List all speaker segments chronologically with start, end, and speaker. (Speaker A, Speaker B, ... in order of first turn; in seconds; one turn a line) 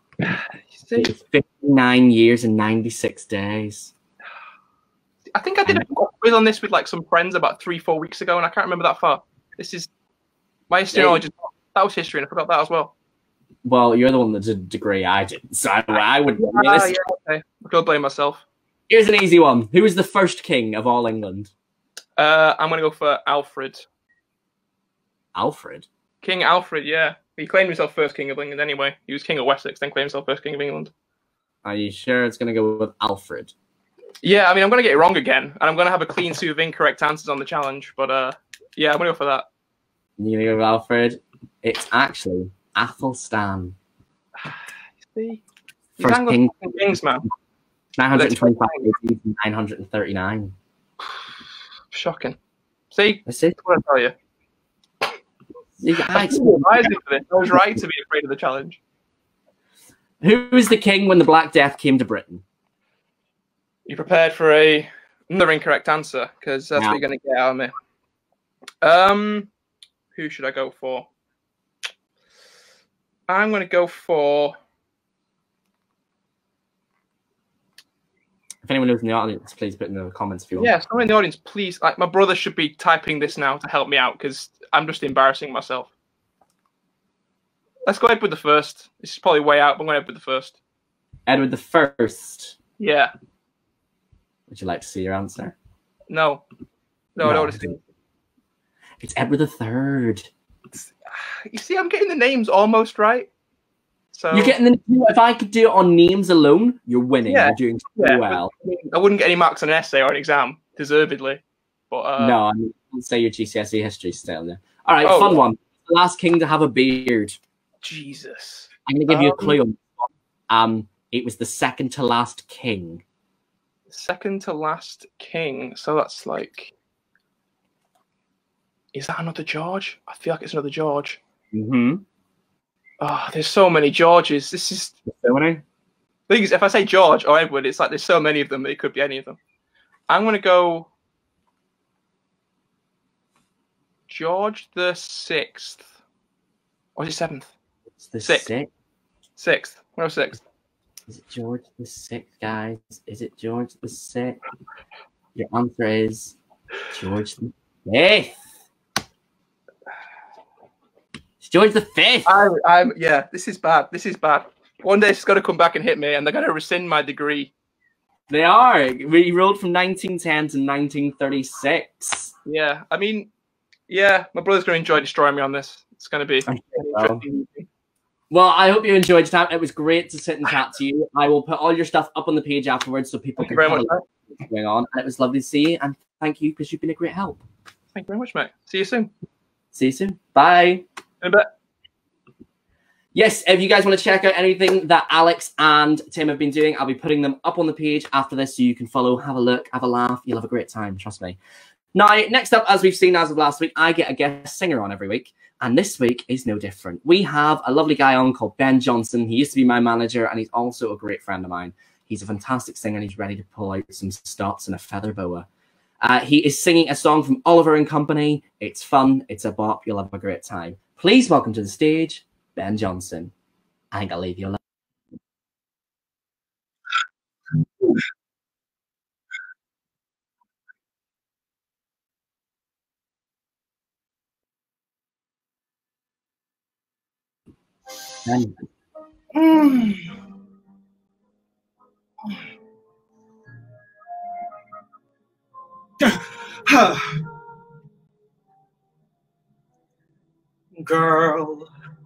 Speaker A: 0.3-1.1
Speaker B: 0.9-3.9
Speaker A: 5.3-9.9
Speaker A: 10.7-12.9
Speaker B: 10.9-11.2
Speaker B: 13.6-16.9
Speaker A: 16.4-18.4
Speaker B: 18.9-21.5
Speaker A: 22.2-23.9
Speaker B: 25.3-25.9
Speaker A: 26.2-30.9
Speaker B: 31.6-33.5
Speaker A: 34.2-39.5
Speaker B: 40.2-43.8
Speaker A: 44.4-45.4
Speaker A: 46.0-47.2
Speaker B: 46.0-46.6
Speaker B: 48.0-50.5
Speaker A: 48.1-48.9
Speaker A: 51.9-52.4
Speaker A: 52.9-54.1
Speaker B: 53.2-53.5
Speaker B: 55.8-56.9
Speaker A: 56.1-58.8
Speaker B: 60.2-62.4
Speaker A: 63.9-67.7
Speaker B: 66.8-67.0
Speaker A: 68.8-69.5
Speaker A: 70.1-71.1
Speaker A: 73.3-74.5
Speaker B: 78.6-80.7
Speaker A: 80.6-85.9
Speaker A: 87.8-90.5
Speaker B: 91.3-92.5
Speaker A: 92.8-93.1
Speaker B: 94.5-95.5
Speaker A: 96.1-96.4
Speaker A: 97.2-97.8
Speaker B: 97.2-97.7
Speaker B: 99.0-100.3
Speaker A: 101.3-103.3
Speaker A: 104.1-104.5
Speaker B: 104.3-108.5
Speaker A: 107.3-112.4
Speaker B: 112.2-117.4
Speaker A: 115.0-115.4
Speaker A: 117.8-119.6
Speaker B: 118.9-123.0
Speaker A: 123.9-126.7
Speaker A: 128.9-131.2
Speaker B: 131.5-132.0
Speaker A: 133.0-135.0
Speaker B: 135.1-135.6
Speaker A: 136.3-139.4
Speaker A: 140.1-140.9
Speaker A: 144.1-145.8
Speaker A: 146.9-147.5
Speaker B: 148.0-148.7
Speaker A: 149.4-150.4
Speaker B: 151.1-154.4
Speaker B: 155.3-156.3
Speaker B: 156.9-158.4
Speaker B: 161.4-162.3
Speaker A: 162.2-167.5
Speaker B: 168.3-172.3
Speaker A: 172.4-173.3
Speaker A: 173.9-177.7
Speaker B: 176.5-177.2
Speaker B: 178.3-187.4
Speaker A: 183.4-184.0
Speaker A: 187.9-189.1
Speaker B: 189.7-190.8
Speaker A: 191.2-191.5
Speaker B: 193.1-201.4
Speaker B: 201.9-215.4
Speaker B: 216.0-223.3
Speaker B: 223.9-224.6
Speaker B: 238.2-238.6
Speaker C: 239.3-240.1
Speaker C: 246.0-247.2
Speaker C: 250.8-251.7